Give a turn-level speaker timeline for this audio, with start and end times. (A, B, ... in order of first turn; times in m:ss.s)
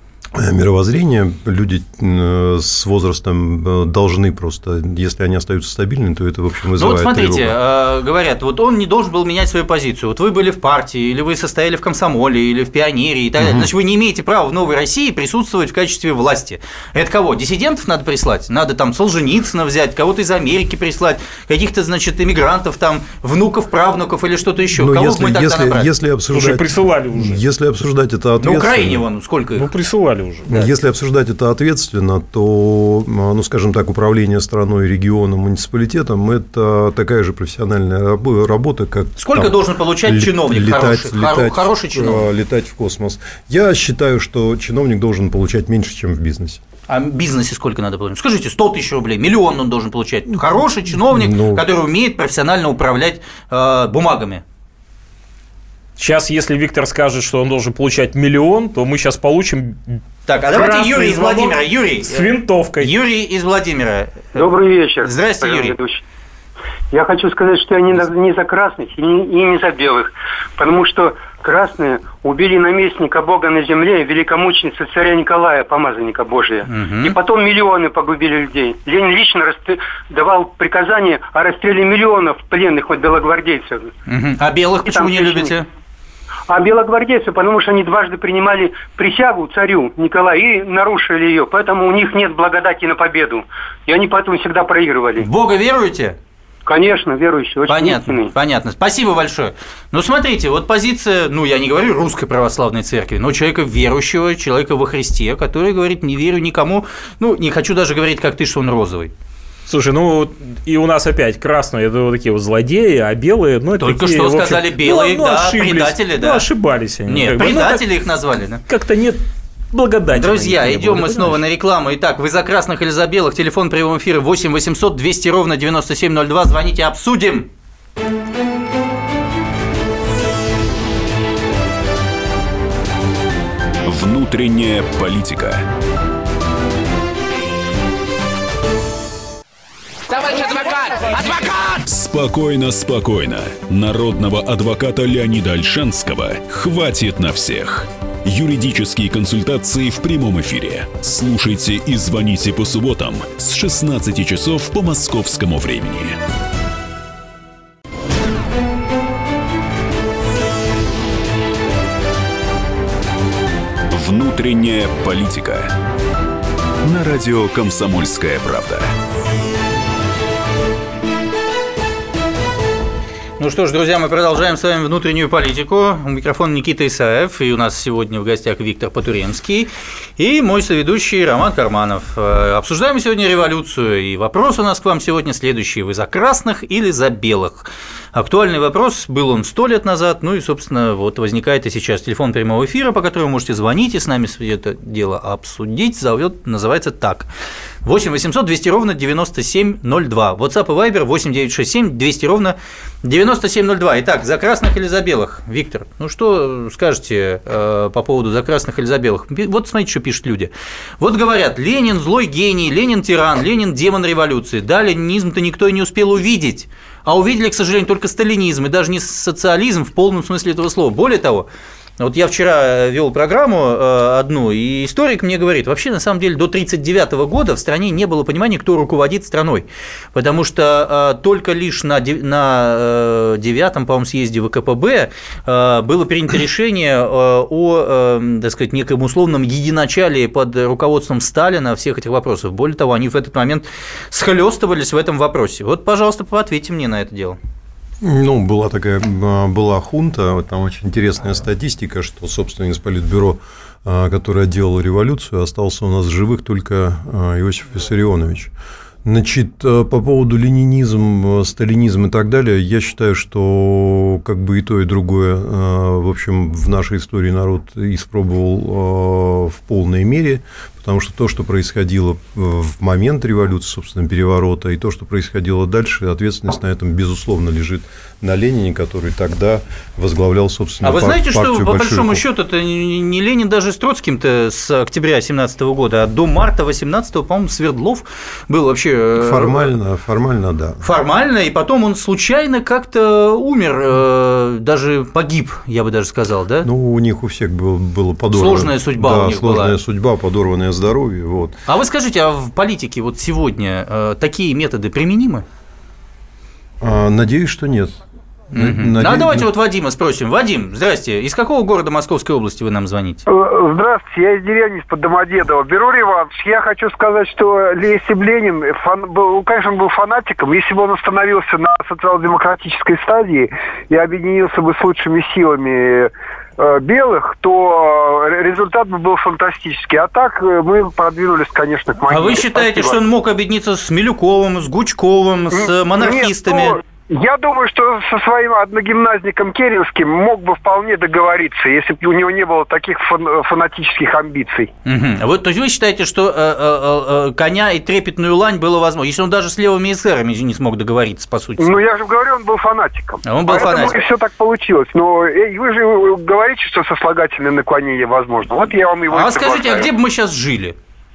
0:00.3-0:07.6 A
0:06.8-0:25.9 B
0:13.4-0:13.7 A
0:24.7-0:29.0 A
0:26.3-0:27.4 C
0:28.4-0:29.7 B
0:29.6-0:30.5 C
0:30.5-0:46.6 A
0:39.2-0:42.3 B
0:46.9-0:54.4 B
0:51.1-0:51.6 A
0:56.0-1:00.0 C
1:00.3-1:04.5 B
1:00.5-1:02.9 C
1:04.3-1:06.0 D
1:05.0-1:05.8 B
1:06.9-1:23.9 D
1:16.7-1:17.2 B
1:24.1-1:25.7 B
1:24.8-1:25.5 D
1:26.5-1:35.3 D
1:35.2-1:36.2 B
1:36.6-1:38.3 D
1:37.7-1:49.1 B
1:49.7-1:57.8 C
1:53.8-1:56.5 B
1:57.0-1:58.6 B
1:58.7-1:59.2 C
1:59.7-2:01.4 C
2:00.1-2:07.5 B
2:13.8-2:15.6 E
2:21.8-2:36.2 E
2:43.9-2:45.7 E
2:46.8-2:48.9 E
2:53.4-3:17.3 B
3:17.8-3:41.5 B
3:42.0-4:07.4 B
4:08.0-4:18.5 A
4:19.0-4:42.2 A
4:40.8-4:49.7 B
4:49.2-4:50.9 A
4:50.8-4:56.7 B
4:56.6-5:01.6 A
4:58.3-4:59.8 B
5:01.7-5:05.4 B
5:06.8-5:07.9 A
5:08.5-5:09.5 A
5:08.5-5:13.2 B
5:13.3-5:33.0 F
5:32.1-5:36.8 B
5:35.5-5:44.7 F
5:44.8-5:51.8 B
5:51.6-5:59.9 F
5:53.2-5:54.0 B
5:59.1-6:00.7 B